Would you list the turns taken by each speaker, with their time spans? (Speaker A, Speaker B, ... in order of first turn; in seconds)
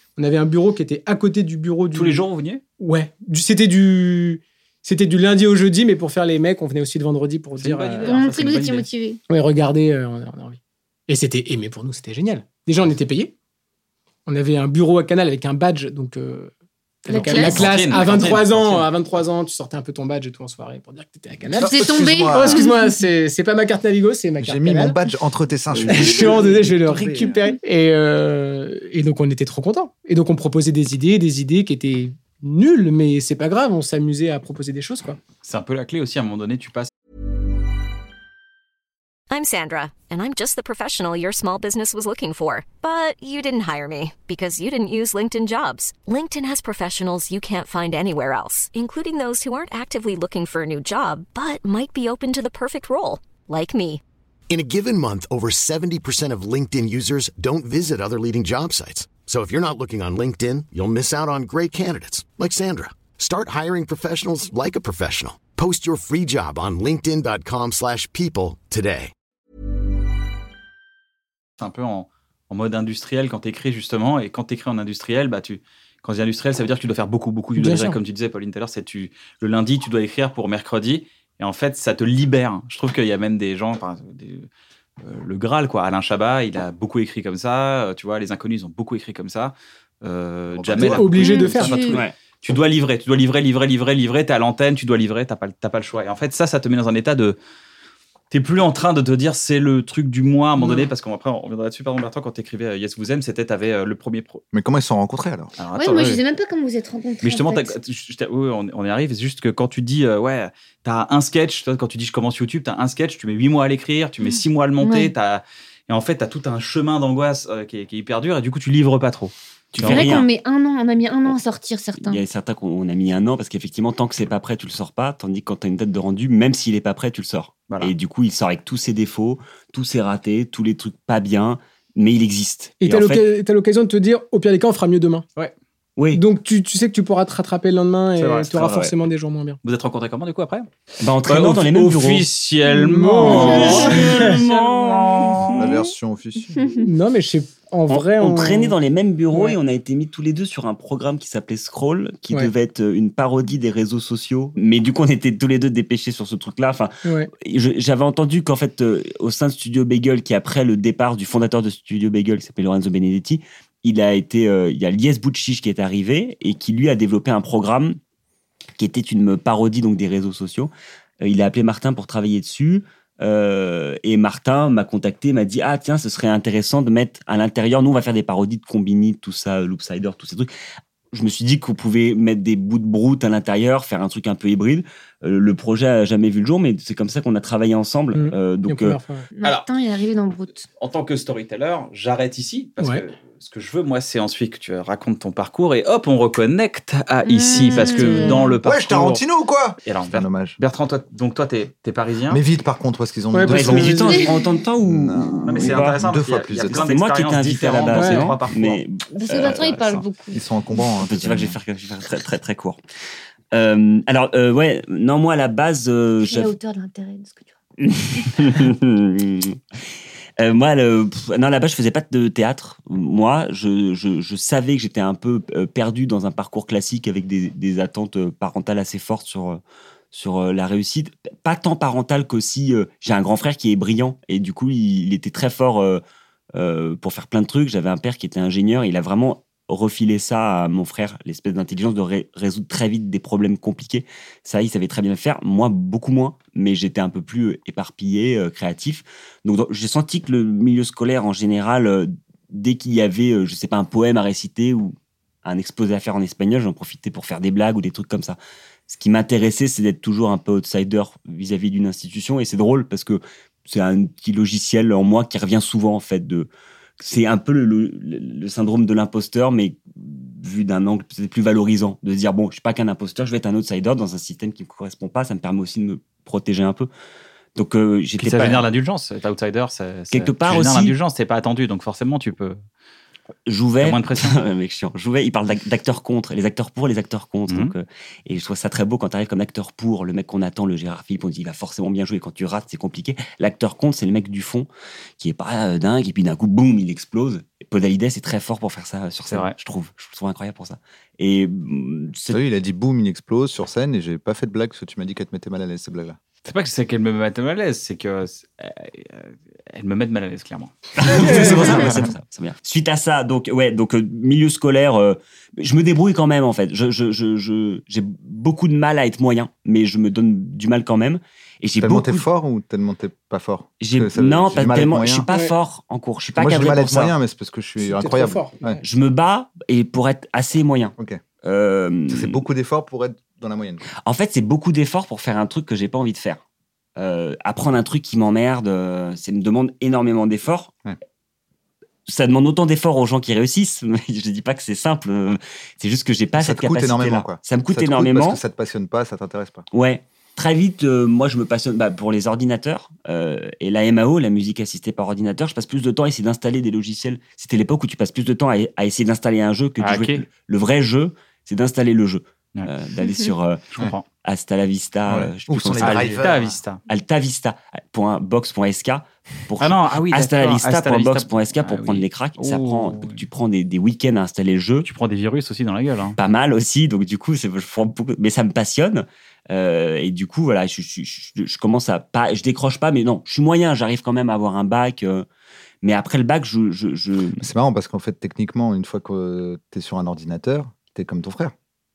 Speaker A: 0.2-2.2, 2.8-8.2, 9.3-13.3, 14.2-16.5, 17.0-24.9, 25.8-35.2, 77.6-78.0, 90.8-91.9, 100.6-100.9, 132.8-135.3, 136.1-139.6, 142.7-144.4, 146.8-148.7, 149.3-149.6, 157.0-157.3, 188.1-189.3, 197.6-198.4, 203.3-204.2, 207.9-208.4, 327.8-328.8
Speaker B: 1.9-2.6, 7.6-8.9, 17.2-18.9, 35.4-36.9, 71.6-84.5, 85.0-97.4, 98.3-104.4, 105.6-106.2, 107.2-120.1, 127.7-127.9, 138.2-138.7, 139.6-140.7, 141.3-145.7, 190.8-199.2, 199.8-202.4, 205.4-208.8, 209.4-210.0, 278.2-282.6, 283.8-284.4, 287.5-287.7, 299.2-299.5, 306.4-311.9, 359.8-360.2, 363.7-364.1, 365.1-366.8, 369.6-373.2, 374.8-376.2
Speaker C: 8.0-9.2, 17.1-17.7, 21.6-22.7, 91.2-92.0, 105.7-107.8, 114.8-115.1, 119.8-122.2, 189.3-190.7, 197.2-198.5, 209.1-210.4, 216.2-217.5
Speaker D: 21.6-22.6, 24.4-27.4, 90.5-91.2, 104.5-105.5, 145.6-146.7, 198.6-200.6, 202.3-206.9, 210.3-211.6, 302.3-306.2, 321.8-325.2, 326.4-328.8, 332.1-333.8, 346.4-349.6, 365.5-366.5, 387.4-391.5
Speaker E: 39.3-54.0
Speaker F: 54.5-69.1
Speaker G: 119.7-120.3, 122.0-133.2, 136.0-136.2, 138.5-138.9, 141.0-142.3, 143.4-145.5, 147.9-168.0, 168.8-180.5, 181.1-189.0, 203.4-206.1, 206.6-209.8, 211.0-212.8, 213.5-216.5, 217.8-219.6, 220.4-229.6, 230.1-236.0, 236.5-258.4, 258.9-276.9, 277.5-278.7, 280.1-280.9, 283.4-302.4, 311.0-322.2, 323.8-327.1, 328.8-332.4, 334.0-336.4, 337.0-340.7, 342.1-348.4, 349.7-366.2, 366.9-374.9, 376.2-385.2, 385.8-387.4